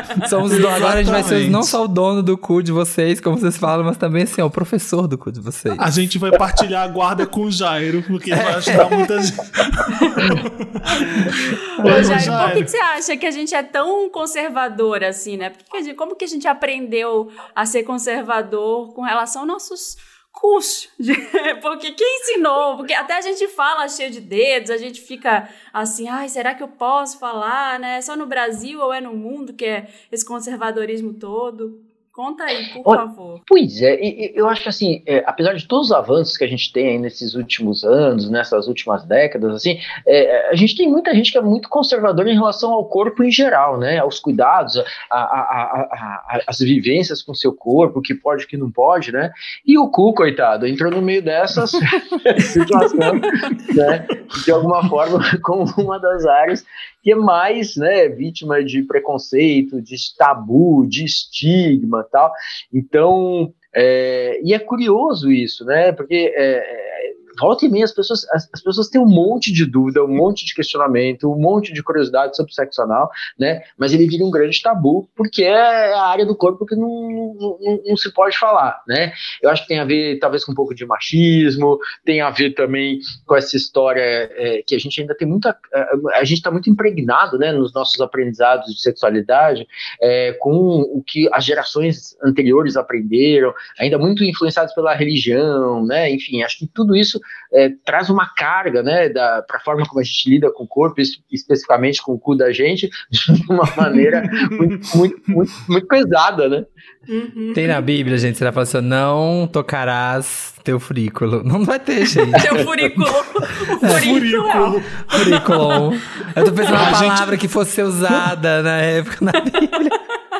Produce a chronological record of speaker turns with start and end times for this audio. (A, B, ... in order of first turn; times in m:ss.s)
0:00.2-0:05.8 A
0:00.5-0:01.8 B
0:05.8-0:12.7 B
0:08.3-0:09.1 A
0:10.0-0:10.3 C
0:10.8-0:33.4 C
0:11.9-0:12.2 A
0:32.8-1:46.7 D
0:53.0-0:53.2 C
1:47.1-1:47.8 C
1:47.5-1:52.6 A
1:52.3-1:55.9 C
1:53.8-1:55.4 B
1:55.1-1:59.9 A
1:56.4-1:57.1 C
1:56.7-1:57.4 B